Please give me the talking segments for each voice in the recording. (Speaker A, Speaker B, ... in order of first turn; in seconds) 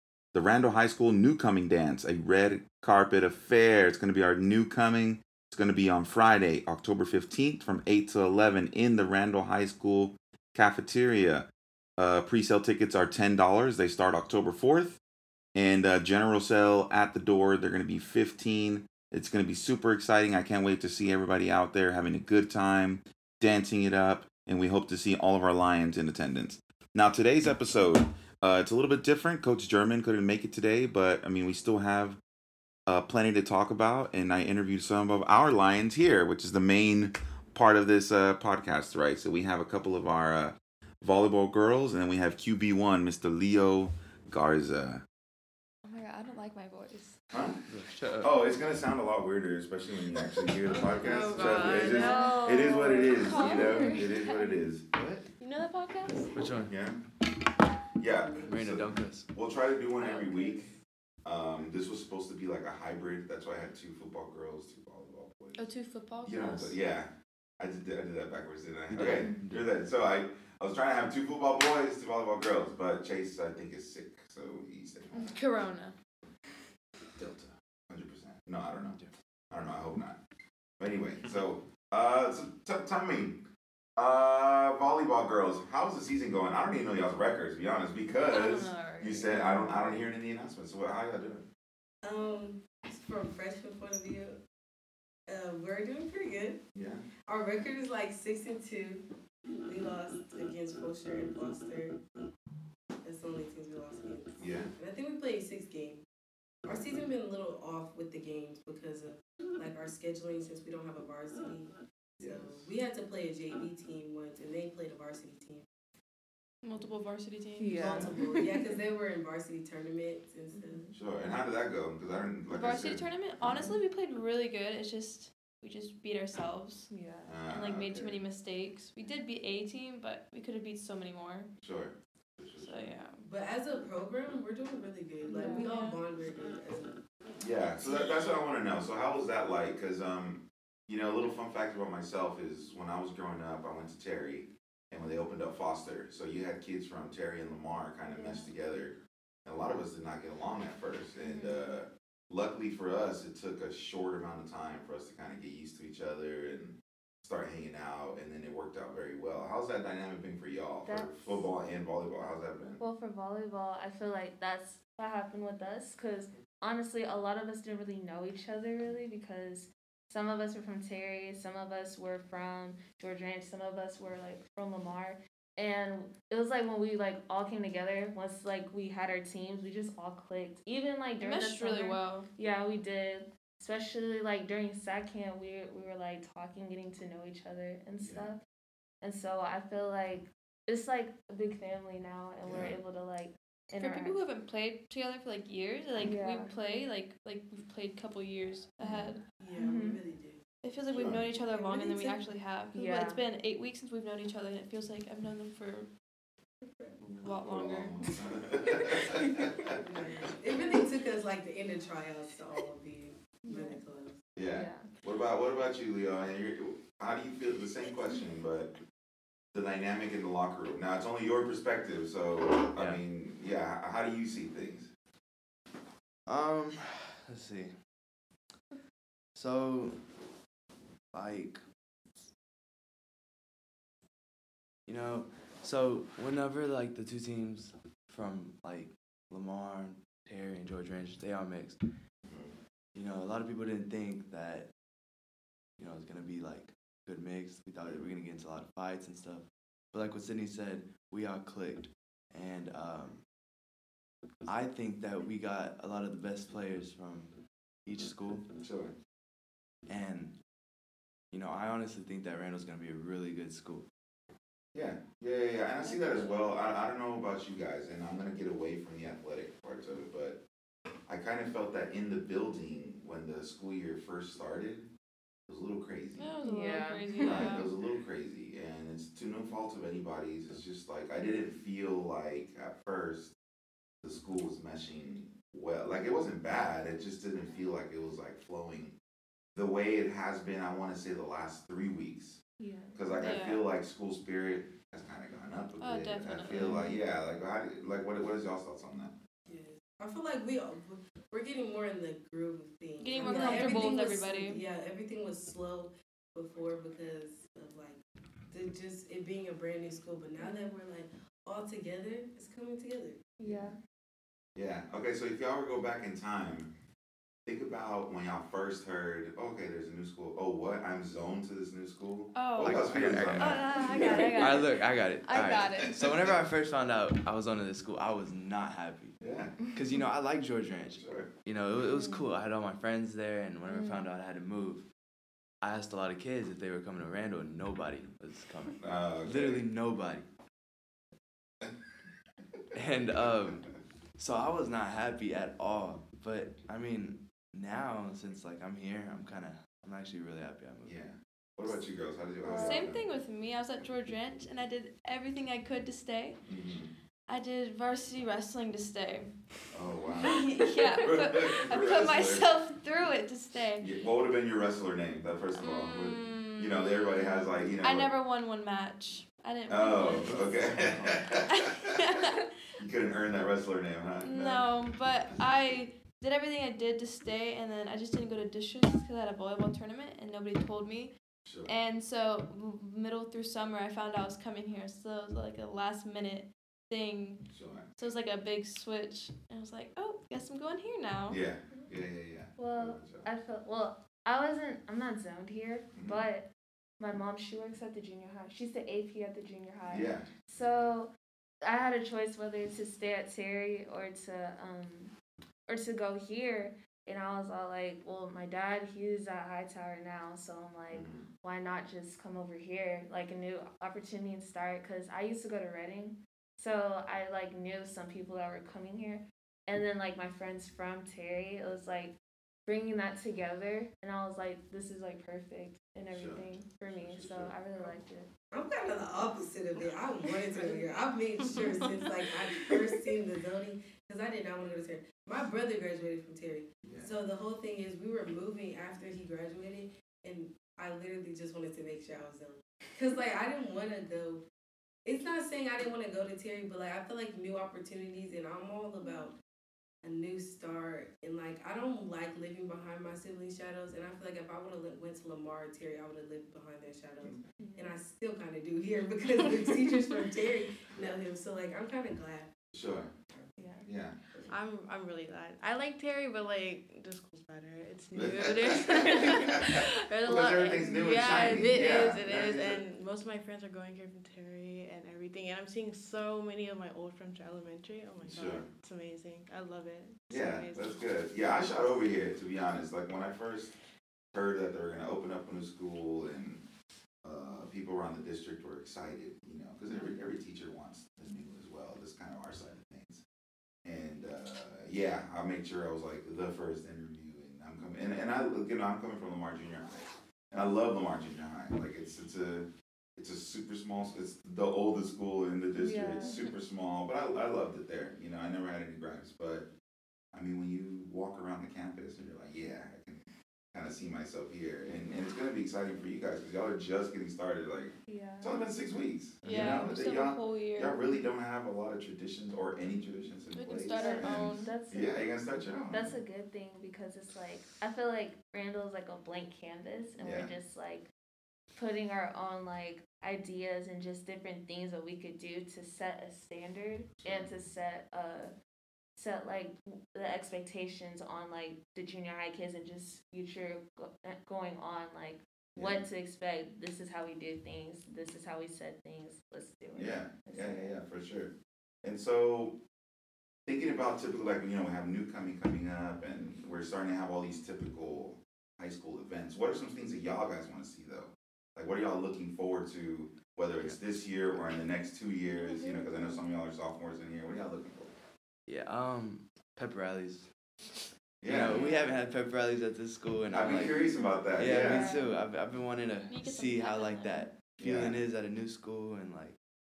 Speaker A: 0.3-15.0, 15.5-32.2, 32.9-45.0, 47.3-47.6, 48.2-54.9, 56.6-57.0, 58.0-60.7, 61.2-65.6, 66.2-75.3, 77.2-79.0, 79.5-80.2, 80.8-83.4, 84.0-91.5, 96.7-97.1, 104.4-104.7, 106.7-107.0, 112.2-112.7, 120.9-123.8, 127.3-128.2, 131.6-132.9, 137.4-162.8, 188.0-188.3, 192.4-192.8, 200.9-201.3, 207.2-209.7, 214.3-218.7, 219.5-224.9, 242.2-242.5, 258.6-258.9, 264.7-270.4, 271.1-274.9, 275.5-276.3, 277.2-283.3, 284.0-288.9, 289.5-292.4, 292.9-299.1, 313.4-313.7, 314.5-316.7, 317.4-324.3, 325.3-326.4, 329.2-329.6, 330.9-331.3, 338.8-339.6, 350.8-353.0, 356.4-356.9, 359.7-362.5, 363.8-368.1, 369.7-372.0, 372.8-374.7, 381.4-381.7, 387.5-387.9, 391.3-393.3, 395.9-396.2, 399.9-400.3, 410.9-411.3, 426.1-427.5, 436.8-437.1, 462.7-463.1, 463.8-464.4, 468.1-472.8, 478.2-478.7, 480.3-483.7, 484.3-486.6, 487.2-493.2, 493.8-509.7, 510.3-513.2, 513.7-526.2, 530.2-530.5, 537.2-537.5, 545.7-546.0, 549.9-552.8, 553.6-568.1, 571.4-571.9, 573.5-575.1, 577.8-578.2
Speaker B: 45.8-47.2, 51.0-54.5, 55.4-56.3, 60.0-60.5, 65.6-66.7, 75.1-76.0, 88.2-89.5, 116.6-118.1, 122.5-126.9, 127.5-131.5, 132.6-133.2, 135.3-136.0, 181.2-182.3, 193.8-199.2, 200.6-205.9, 207.1-208.0, 265.9-266.3, 276.2-277.7, 293.2-293.6, 295.8-296.9, 303.0-304.6, 322.3-326.1, 352.5-356.4, 357.3-359.3, 360.2-363.9, 365.6-370.6, 371.4-372.4, 374.2-381.1, 381.6-391.4, 468.9-469.4, 519.4-521.0, 523.5-524.7, 565.7-566.0, 576.3-577.5
Speaker C: 47.7-48.3, 54.9-55.3, 56.3-56.7, 58.5-59.3, 68.9-69.7, 222.8-223.0, 226.3-227.7, 229.3-230.0, 231.1-231.6, 234.8-241.8, 242.9-244.7, 245.8-253.2, 254.4-257.3, 257.9-258.5, 259.9-260.4, 261.3-263.9, 322.6-329.1, 329.7-334.8, 335.6-340.2, 342.7-350.9, 370.8-371.2, 519.4-519.9, 568.7-579.5
Speaker D: 50.6-52.2, 92.0-94.4, 95.3-96.6, 97.2-99.0, 99.7-102.0, 103.0-106.0, 106.6-115.7, 117.8-120.8, 133.2-137.0, 199.4-200.4, 201.5-202.2, 209.7-214.2, 299.5-308.0, 308.5-313.2, 428.5-444.4, 445.0-449.3, 450.0-462.5
Speaker E: 51.8-54.3, 117.6-118.7, 120.5-120.9, 126.9-127.3, 135.3-135.7, 148.1-148.5, 151.2-151.8, 160.8-161.5, 162.8-188.4, 189.0-194.2, 196.0-196.5, 199.6-200.0, 202.7-203.2, 213.4-213.8, 214.5-214.9, 276.4-277.6, 292.6-293.4, 296.6-297.0, 303.2-303.9, 310.4-310.8, 313.4-313.8, 323.7-324.7, 331.9-332.2, 333.6-334.1, 352.4-352.9, 392.6-396.5, 397.0-405.1, 405.7-422.1, 422.6-428.3, 457.6-458.0, 463.6-463.9, 505.7-506.4, 518.1-518.6, 523.9-525.2, 525.9-531.1, 531.7-538.5, 539.1-550.9, 571.7-572.0, 574.7-575.3
Speaker F: 464.5-481.0